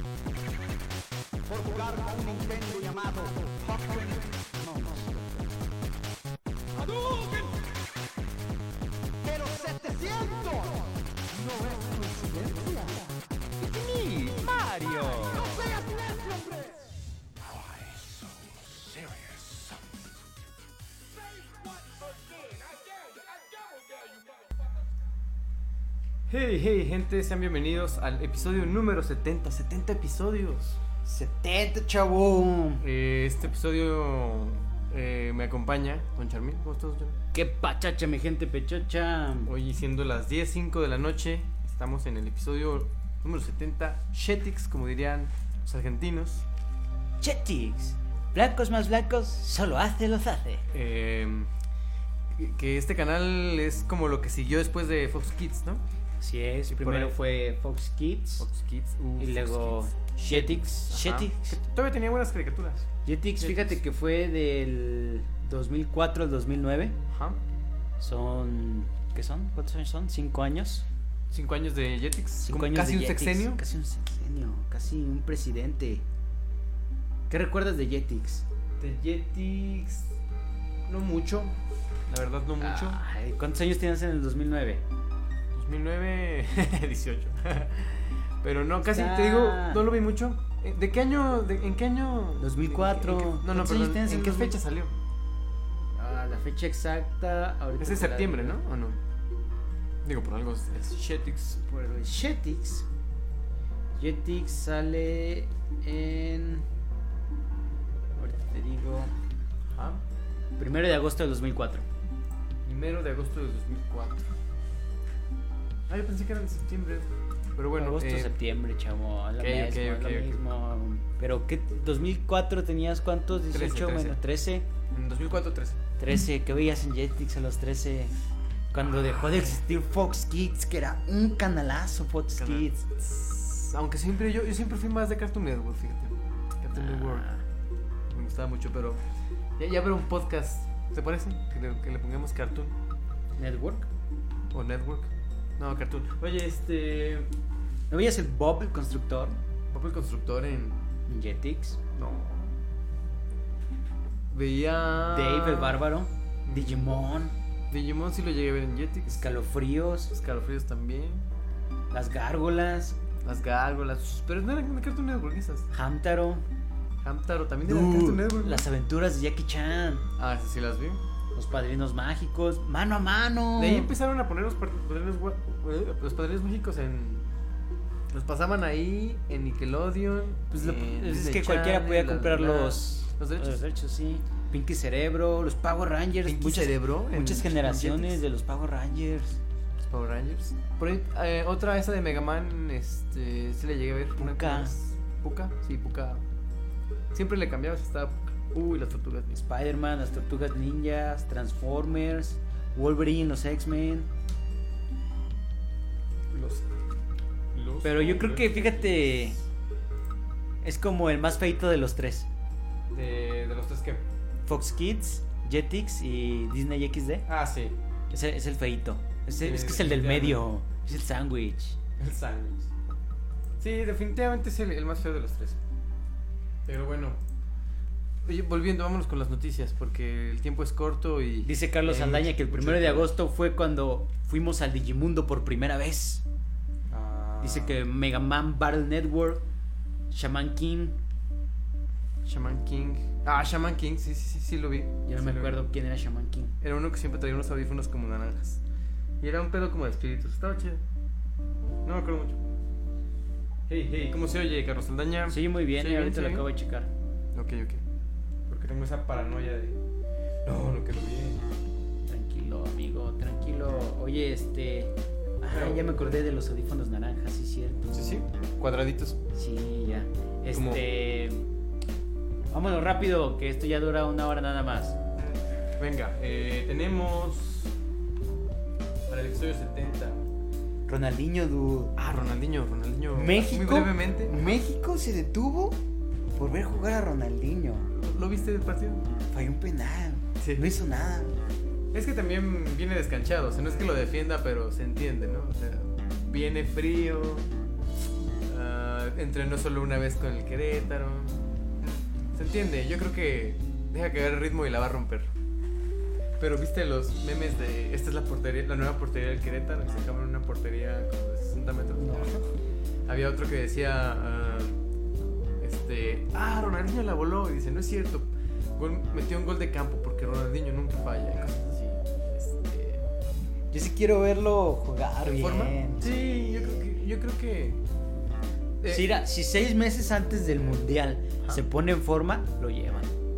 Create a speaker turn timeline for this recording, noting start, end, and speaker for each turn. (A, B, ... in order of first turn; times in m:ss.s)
0:01.5-0:05.6 A
0:06.7-0:07.7 A
0:09.2-0:16.9 A
0:22.1-0:24.6 A
0:26.3-0:30.8 B
0:31.0-0:32.8 C
0:32.8-0:37.2 B
0:37.3-0:39.5 C
0:39.4-0:46.4 B
0:47.2-0:50.6 C
0:50.7-0:51.5 B
0:52.4-0:55.8 B
0:56.2-0:58.4 C
0:56.7-0:57.1 B
0:58.4-1:02.9 B
0:59.2-1:01.6 C
1:03.0-1:07.0 C
1:03.4-1:03.8 B
1:07.1-1:07.4 B
1:08.0-1:10.8 C
1:11.3-1:13.6 B
1:12.4-1:16.0 C
1:17.3-1:18.4 C
1:18.8-1:20.1 B
1:20.9-1:21.5 B
1:22.1-1:23.0 B
1:22.6-1:24.8 C
1:25.5-1:35.0 B
1:28.8-1:29.8 C
1:32.4-1:34.6 C
1:35.9-1:38.6 C
1:37.8-1:39.0 B
1:40.0-1:41.6 B
1:41.6-1:42.9 C
1:44.0-1:46.7 C
1:48.2-1:49.1 C
1:49.7-1:50.0 B
1:50.6-1:51.8 C
1:52.6-1:54.3 B
1:55.9-1:58.4 B
1:57.7-2:04.7 C
1:59.4-2:00.4 B
2:03.5-2:04.2 B
2:04.9-2:05.8 B
2:06.0-2:08.1 C
2:08.7-2:12.8 C
2:08.8-2:09.6 B
2:12.3-2:17.3 B
2:16.7-2:17.4 C
2:18.1-2:19.0 B
2:19.6-2:22.8 B
2:23.4-2:23.9 C
2:24.5-2:27.3 B
2:27.9-2:29.4 C
2:29.7-2:30.8 B
2:31.1-2:31.8 C
2:31.9-2:32.5 B
2:34.3-2:35.8 B
2:35.1-2:37.4 C
2:36.4-2:36.9 B
2:37.7-2:39.3 B
2:39.0-2:40.1 C
2:40.1-2:41.2 B
2:41.9-2:43.0 C
2:43.2-2:45.7 B
2:45.7-2:46.4 C
2:47.0-2:48.6 B
2:47.6-2:50.0 C
2:50.2-2:51.0 B
2:51.3-2:53.9 C
2:53.6-2:57.3 B
2:58.1-3:03.6 B
3:00.5-3:09.4 C
3:06.2-3:08.2 B
3:09.8-3:16.2 B
3:14.2-3:14.7 C
3:17.1-3:19.4 B
3:19.3-3:24.1 C
3:26.3-3:26.7 B
3:27.5-3:29.4 B
3:27.8-3:29.4 C
3:30.6-3:32.3 C
3:32.9-3:34.0 B
3:34.4-3:37.2 C
3:37.2-3:37.8 B
3:38.1-3:41.8 C
3:39.4-3:40.4 B
3:42.0-3:42.7 B
3:43.6-3:45.6 B
3:46.6-3:47.2 B
3:48.2-3:53.1 B
3:51.4-3:56.2 C
3:56.9-3:57.8 B
3:57.4-3:59.4 C
4:00.1-4:01.0 C
4:02.2-4:05.6 B
4:05.0-4:06.5 C
4:06.6-4:08.6 B
4:09.2-4:10.8 B
4:11.8-4:12.4 B
4:13.7-4:16.5 B
4:15.3-4:16.9 C
4:17.3-4:17.8 B
4:18.5-4:19.8 B
4:20.4-4:21.5 B
4:22.1-4:27.9 C
4:25.5-4:26.1 B
4:27.9-4:29.2 B
4:29.3-4:31.5 C
4:30.5-4:30.8 B
4:32.5-4:35.0 C
4:35.2-4:37.7 B
4:39.1-4:40.2 B
4:40.9-4:42.2 C
4:42.0-4:44.4 B
4:43.1-4:45.8 C
4:46.4-4:47.9 C
4:47.9-4:49.0 B
4:49.3-4:51.3 C
4:50.4-4:50.7 B
4:51.9-4:57.5 B
4:58.5-5:01.4 B
5:02.3-5:05.3 B
5:06.4-5:12.4 B
5:12.0-5:12.4 C
5:13.1-5:14.8 B
5:15.4-5:23.0 B
5:23.7-5:26.5 C
5:25.4-5:27.8 B
5:28.8-5:29.1 B
5:28.9-5:33.1 C